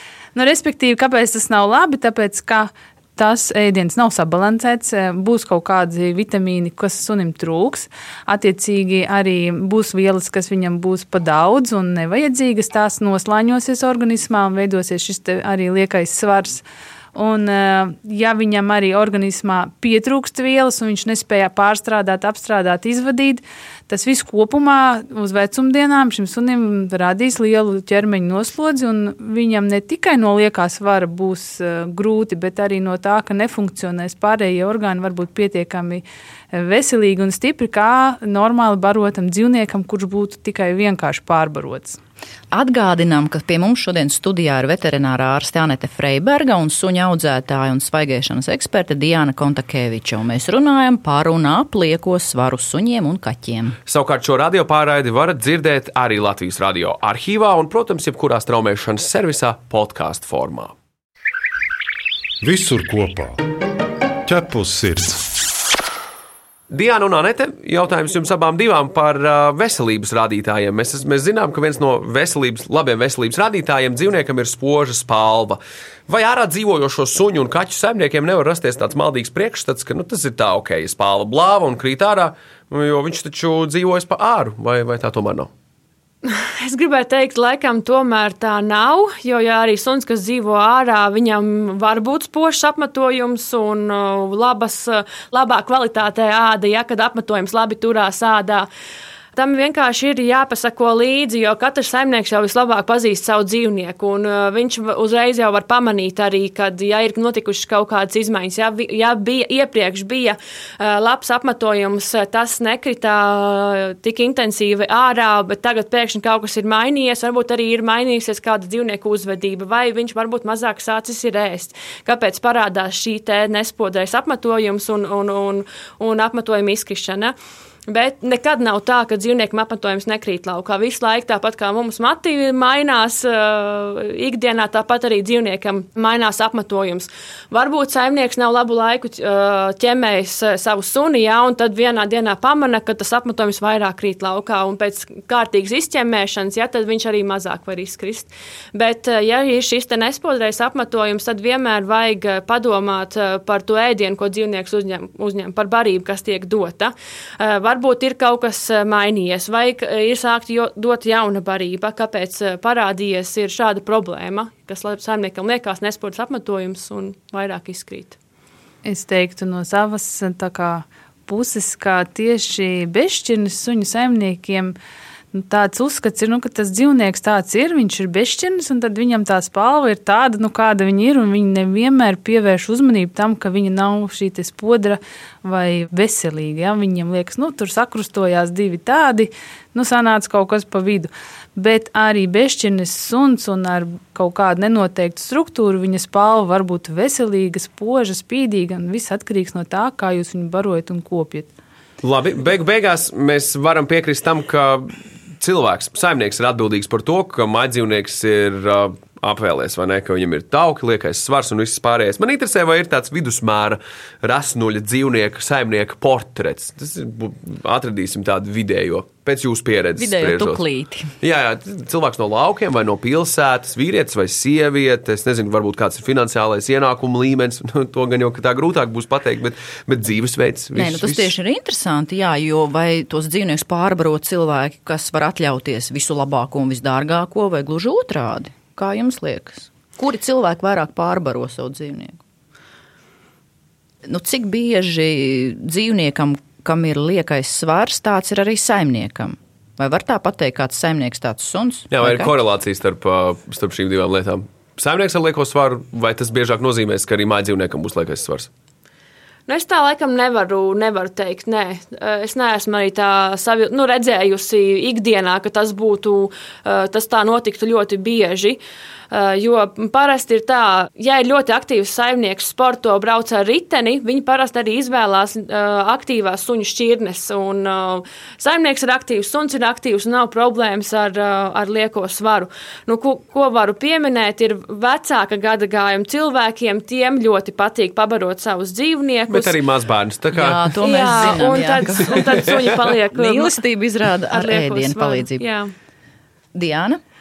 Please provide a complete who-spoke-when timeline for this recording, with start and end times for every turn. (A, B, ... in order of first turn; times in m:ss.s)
0:00.4-0:16.6 A
0:17.2-0:42.0 A
0:42.5-0:53.8 B
0:53.9-1:00.8 C
1:02.4-1:03.4 D
1:04.2-1:05.2 D
1:06.7-1:25.5 C
1:26.2-1:38.7 E
1:39.4-2:07.4 E
2:07.9-2:48.2 E
2:48.8-2:54.8 A
2:55.3-3:21.5 A
3:22.0-3:40.6 C
3:40.0-3:41.1 B
3:41.2-3:51.3 C
3:50.7-4:02.2 B
4:04.0-4:12.3 B
4:11.9-4:18.5 C
4:19.5-4:28.6 E
4:29.1-4:49.6 E
4:49.3-4:51.4 C
4:50.3-4:55.5 B
4:50.8-4:53.6 E
4:54.3-4:55.7 E
4:56.5-4:57.0 B